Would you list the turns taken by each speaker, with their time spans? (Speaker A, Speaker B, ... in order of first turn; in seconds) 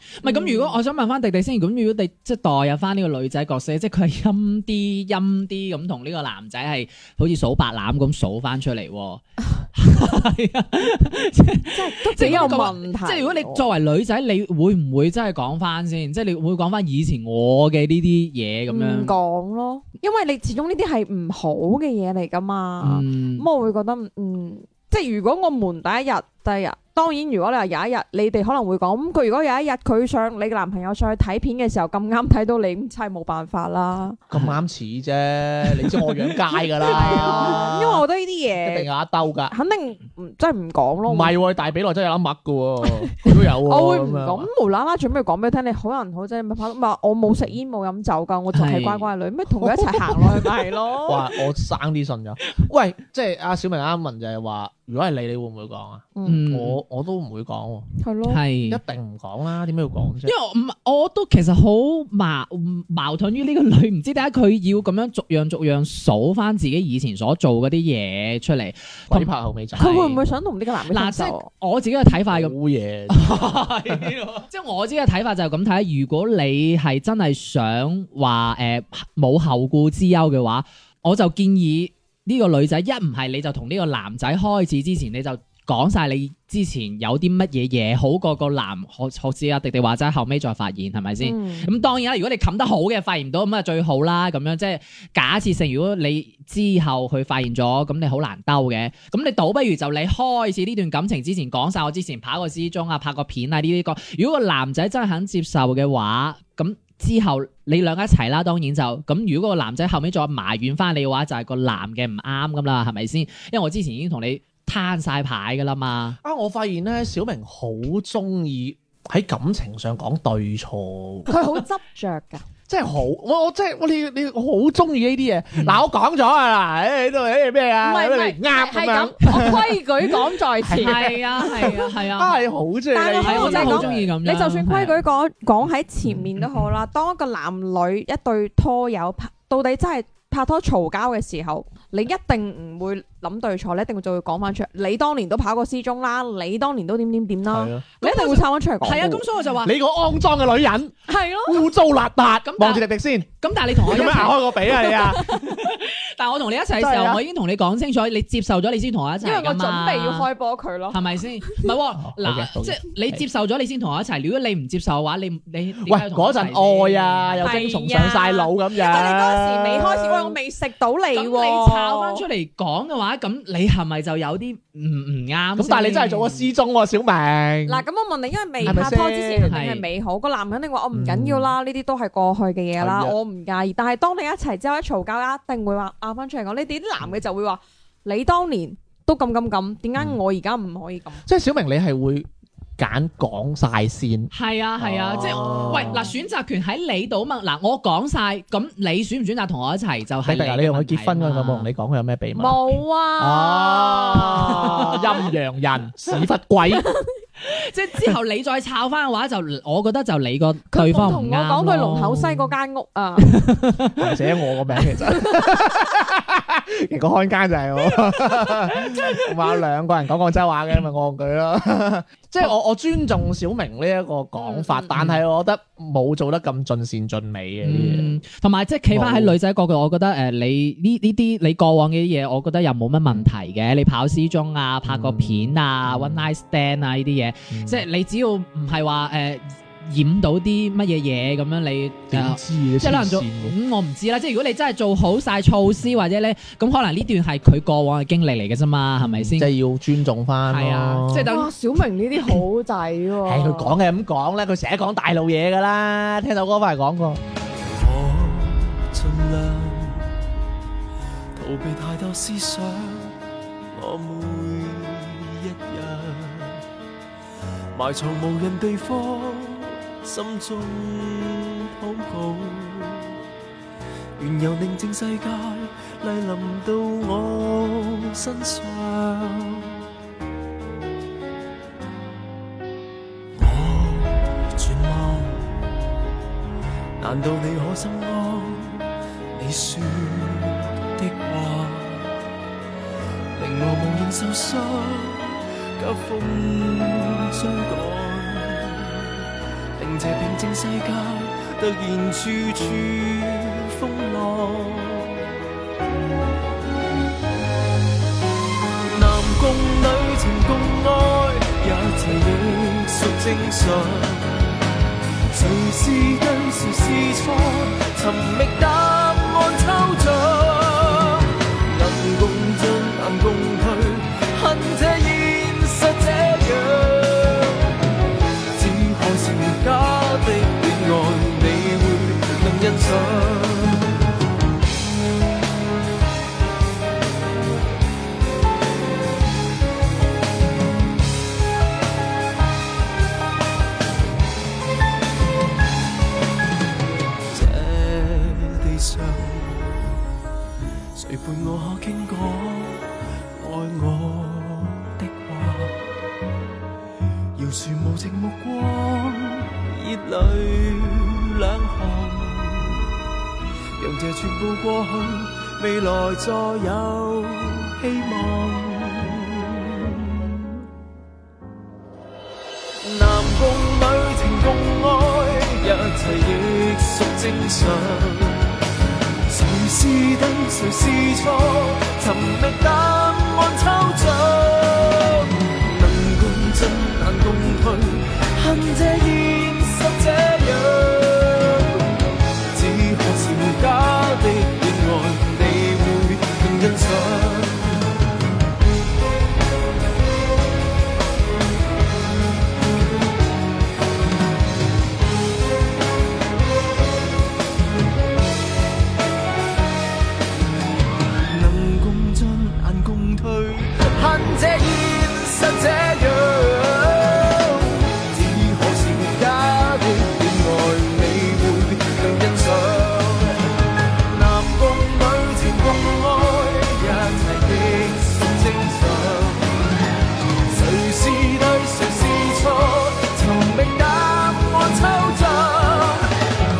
Speaker A: 0.2-9.2, 9.7-19.1, 22.8-23.4, 34.3-34.6, 48.5-49.1, 56.2-56.8, 58.3-58.8, 60.2-70.2, 70.9-72.5, 73.1-116.2, 130.7-132.4, 133.2-135.0, 148.0-149.7, 152.4-152.8, 153.4-154.5, 155.3-160.3, 160.9-167.6, 171.1-176.5, 178.6-178.9, 179.5-179.8, 194.3-201.7, 207.4-212.5, 213.2-214.1, 224.9-225.2, 227.6-249.5, 250.5-251.5
Speaker B: 0.2-0.8, 11.7-13.7, 18.7-34.2, 36.8-38.9, 39.5-41.3, 43.6-51.2, 56.1-56.4, 58.0-58.4, 69.8-71.5, 91.2-91.7, 121.3-122.4, 127.8-131.8, 132.9-149.2, 151.1-151.6, 154.8-155.6, 159.2-161.0, 167.4-172.2, 177.7-191.2, 195.2-196.0, 202.3-205.2, 210.7-213.4, 224.4-224.9, 251.3-253.8
Speaker C: 34.3-38.0, 38.6-39.5, 41.1-44.5, 51.0-57.9, 58.7-60.3, 69.1-70.0, 72.2-74.1, 116.2-121.3, 122.7-129.8, 130.6-134.1, 147.5-147.9, 149.6-150.9, 151.4-155.3, 156.8-157.2, 162.0-163.2, 165.8-170.3, 175.6-177.8, 178.6-179.5, 180.9-181.5, 182.8-183.2, 191.3-192.3, 192.8-196.1, 200.2-202.6, 203.2-206.9, 213.9-228.2, 228.9-229.3, 234.8-236.3, 237.5-237.8, 242.1-243.5, 249.0-251.3, 253.2-257.2
Speaker D: 257.7-260.1, 261.4-263.1, 263.7-266.6, 267.7-273.2, 274.2-279.8, 283.3-285.6, 287.0-292.1, 293.4-299.2, 299.8-305.2, 308.8-314.5, 315.3-327.7, 328.5-333.9, 347.3-349.9, 350.9-355.9, 357.4-362.9, 363.8-370.6, 372.8-378.5, 379.3-391.9, 392.5-397.9, 411.2-423.5, 424.1-429.7, 430.5-436.1